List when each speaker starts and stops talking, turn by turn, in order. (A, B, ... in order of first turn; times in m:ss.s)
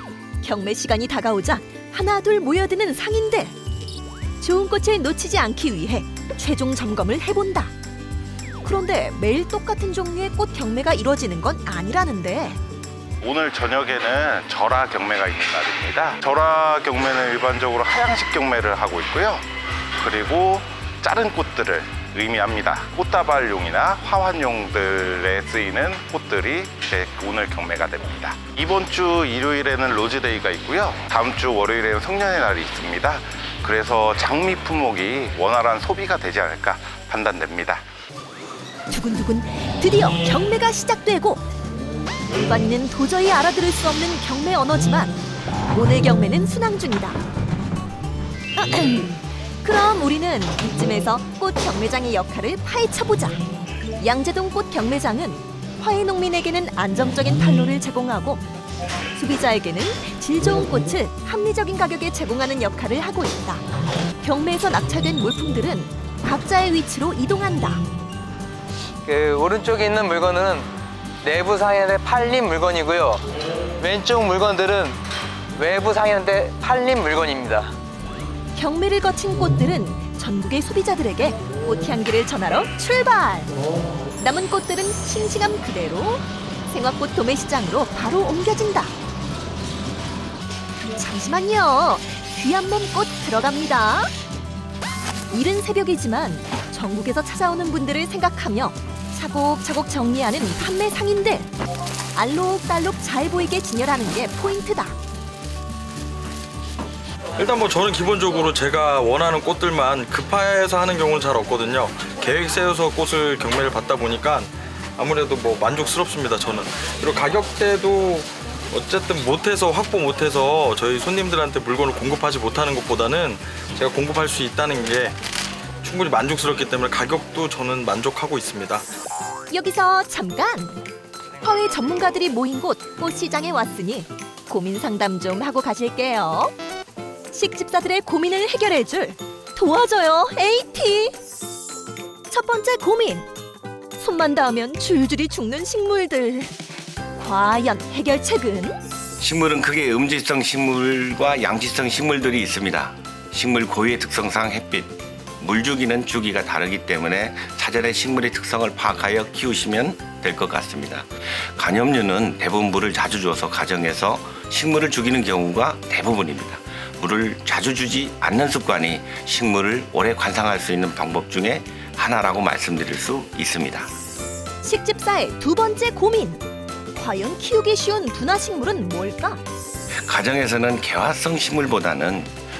0:00.4-0:03.5 A
0:04.4-0:07.7 A
0:08.6-0:12.6 A
0:13.2-0:19.4 B
0:20.0-0:37.8 B
0:38.9-0:41.4 A
0:42.4-0:45.2 A
0:45.7-0:47.2 A
0:48.6-0:53.4 A
0:54.0-0:58.4 A
0:59.2-1:03.6 A
1:04.2-1:07.8 A
1:09.0-1:10.7 C
1:11.2-1:13.2 C
1:13.8-1:15.0 C
1:15.6-1:17.7 C
1:18.5-1:23.5 A
1:24.2-1:28.9 A
1:30.9-1:34.1 A
1:35.3-1:41.5 A
1:42.1-1:45.0 A
1:47.4-2:05.2 D
2:05.8-2:08.8 D
2:09.5-2:10.8 A
2:11.4-2:16.5 A
2:17.3-2:21.1 A
2:22.3-2:23.3 A
2:24.0-2:26.5 A
2:27.1-2:28.8 A
2:29.2-2:53.9 E
2:54.6-2:56.4 A
2:56.9-2:59.4 A
3:00.0-3:02.3 E